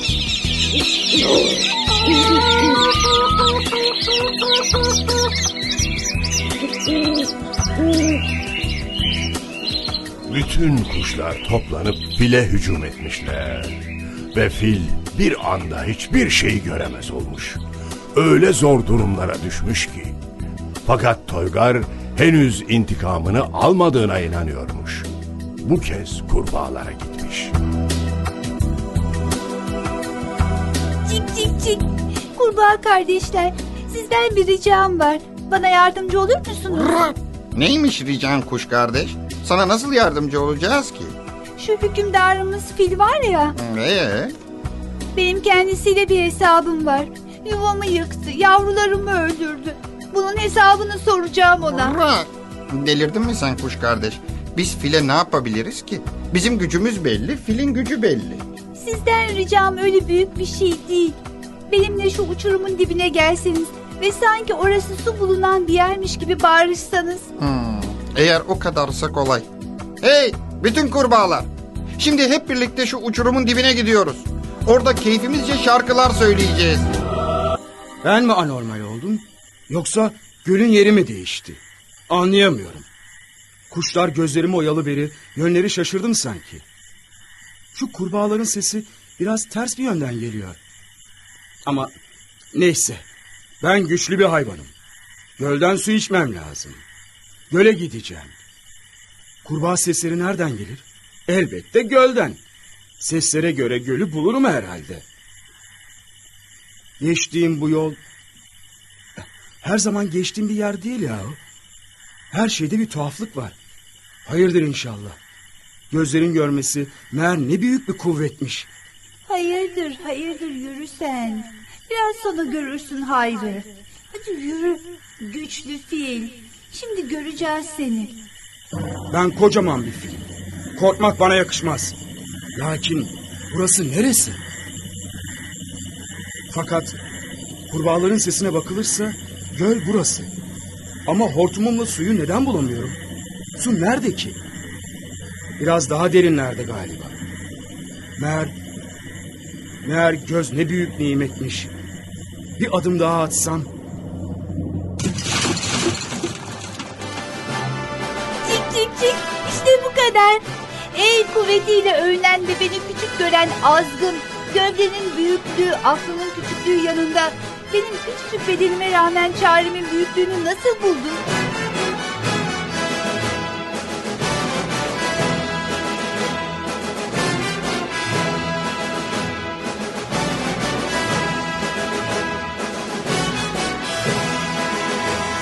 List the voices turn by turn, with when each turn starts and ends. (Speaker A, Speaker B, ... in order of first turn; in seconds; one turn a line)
Speaker A: 10.3-13.8
Speaker A: 14.3-17.6
Speaker A: 18.1-20.2
Speaker A: 20.9-25.1
Speaker A: 25.6-27.5
Speaker B: 31.1-37.0
Speaker C: 36.7-41.2
Speaker B: 41.6-43.6
Speaker C: 43.6-44.4
Speaker B: 45.1-52.0
Speaker C: 51.7-58.4
Speaker B: 58.8-67.3
Speaker C: 67.4-69.5
Speaker C: 70.0-76.9
Speaker D: 78.0-82.9
Speaker D: 83.7-86.6
Speaker D: 87.7-90.6
Speaker D: 91.7-91.9
Speaker D: 92.5-93.0
Speaker D: 93.6-94.7
Speaker D: 95.4-96.8
Speaker D: 97.5-98.3
Speaker D: 99.4-102.4
Speaker D: 103.0-105.0
Speaker D: 107.0-108.0
Speaker D: 109.2-111.4
Speaker D: 112.3-113.5
Speaker D: 114.3-115.2
Speaker D: 115.9-118.7
Speaker B: 119.3-128.2
Speaker D: 129.1-132.0
Speaker D: 132.6-134.4
Speaker D: 136.5-137.0
Speaker D: 137.7-140.3
Speaker D: 141.1-143.0
Speaker D: 143.6-144.4
Speaker D: 145.6-147.2
Speaker D: 148.2-148.6
Speaker D: 149.8-151.7
Speaker D: 152.6-153.7
Speaker B: 158.4-171.2